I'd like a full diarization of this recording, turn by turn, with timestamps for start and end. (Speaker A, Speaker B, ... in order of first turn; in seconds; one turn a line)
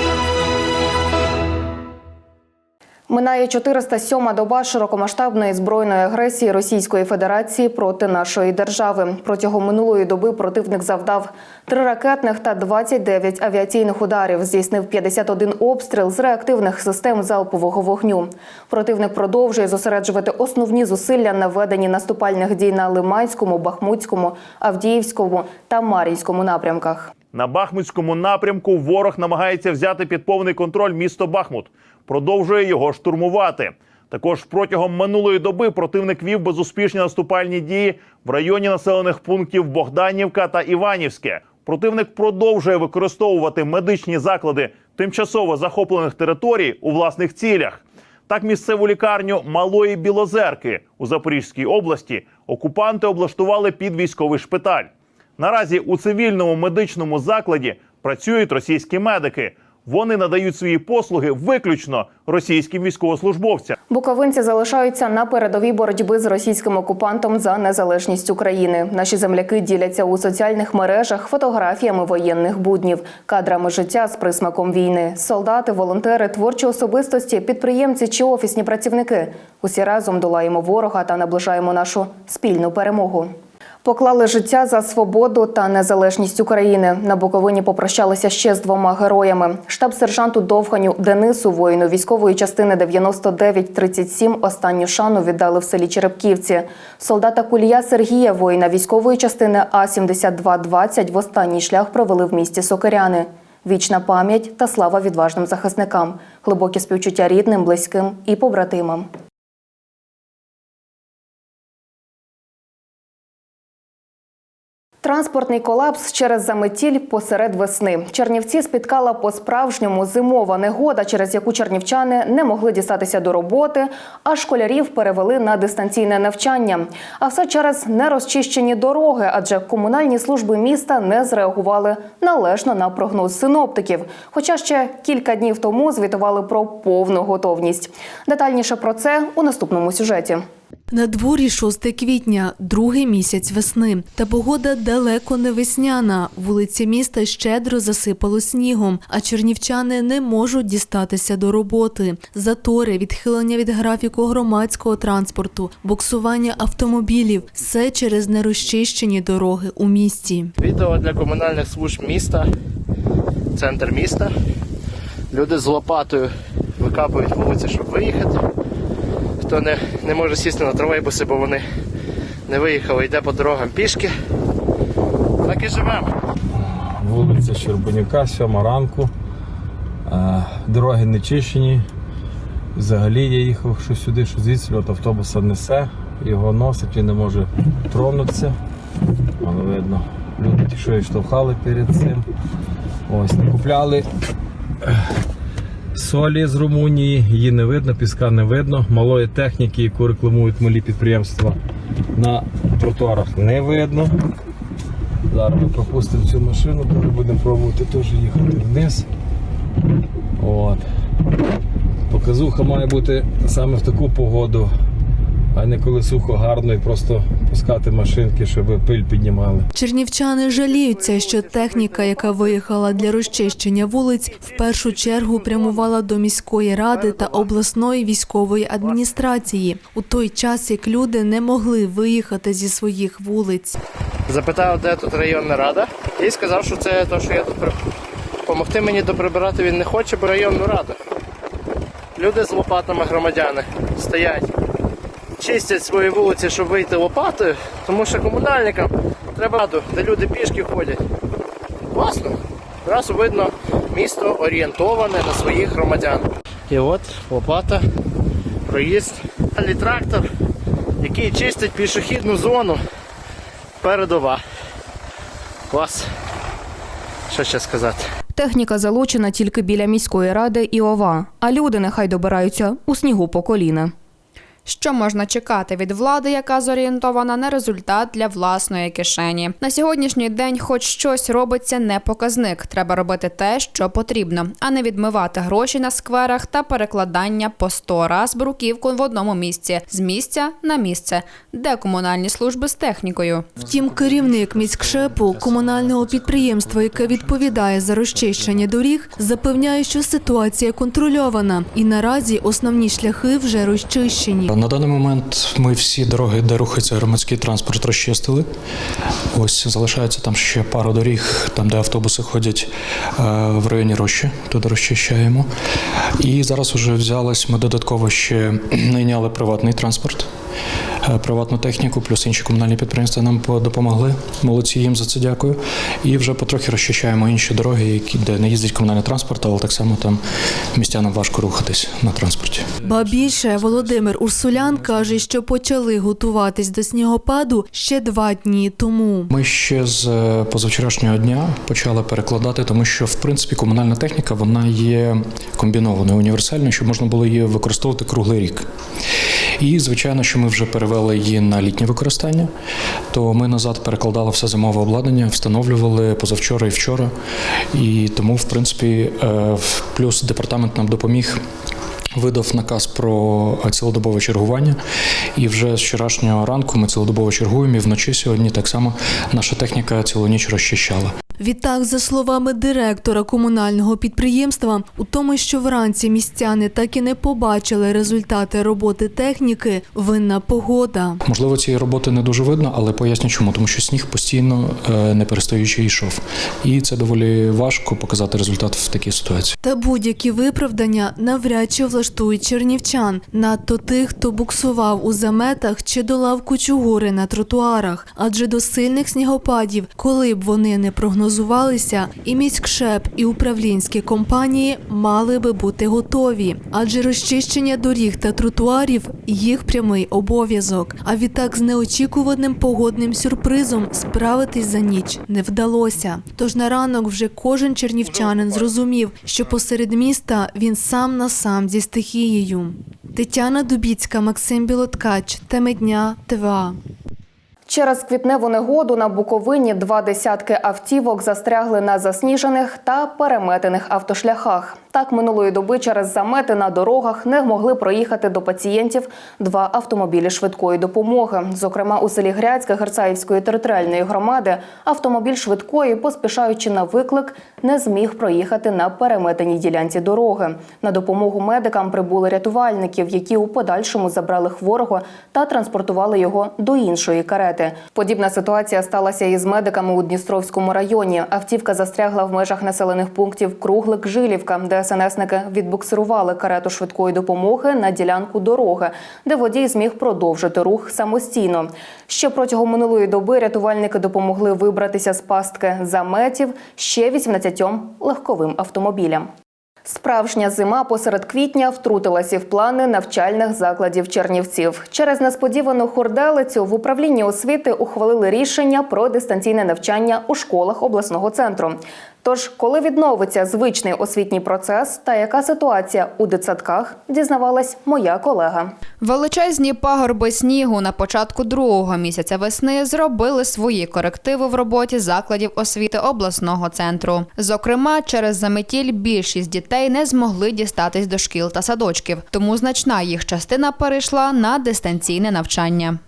Speaker A: 3.1-27.1
Speaker B: 27.3-63.8
Speaker A: 63.9-83.3
Speaker A: 83.8-109.1
Speaker A: 115.0-140.4
Speaker C: 140.9-160.5
Speaker D: 160.6-162.5
Speaker D: 163.6-164.3
Speaker D: 165.3-168.5
Speaker D: 169.4-171.7
Speaker D: 172.5-174.1
Speaker D: 175.4-176.2
Speaker E: 176.6-179.1
Speaker E: 180.1-181.9
Speaker E: 182.8-188.6
Speaker E: 189.4-192.2
Speaker E: 193.1-194.1
Speaker E: 195.9-201.6
Speaker E: 202.2-204.2
Speaker E: 205.3-209.1
Speaker E: 210.4-210.8
Speaker E: 212.1-214.7
Speaker E: 215.5-219.7
Speaker C: 219.8-233.8
Speaker D: 220.6-223.6
Speaker D: 224.4-225.8
Speaker D: 226.9-227.4
Speaker D: 234.3-237.8
Speaker D: 238.5-241.0
Speaker D: 242.2-244.5
Speaker D: 245.4-251.0
Speaker D: 251.9-257.9
Speaker D: 258.7-260.3
Speaker D: 261.0-262.8
Speaker D: 263.8-264.4
Speaker D: 265.7-266.1
Speaker D: 267.3-268.1
Speaker A: 268.4-273.9
Speaker F: 274.7-293.5
Speaker C: 293.6-304.5
Speaker G: 304.5-308.5
Speaker G: 309.3-315.5
Speaker G: 316.2-320.3
Speaker G: 321.0-330.2
Speaker G: 330.8-332.7
Speaker C: 332.9-339.3
Speaker G: 339.3-348.6
Speaker G: 349.6-352.5
Speaker G: 353.1-357.1
Speaker G: 357.7-361.4
Speaker G: 362.2-364.8
Speaker G: 365.4-371.1
Speaker C: 371.4-381.2
Speaker G: 381.2-389.6
Speaker C: 389.6-426.8
Speaker D: 418.1-418.7
Speaker A: 427.7-479.3
Speaker A: 479.9-498.8
Speaker F: 499.0-516.0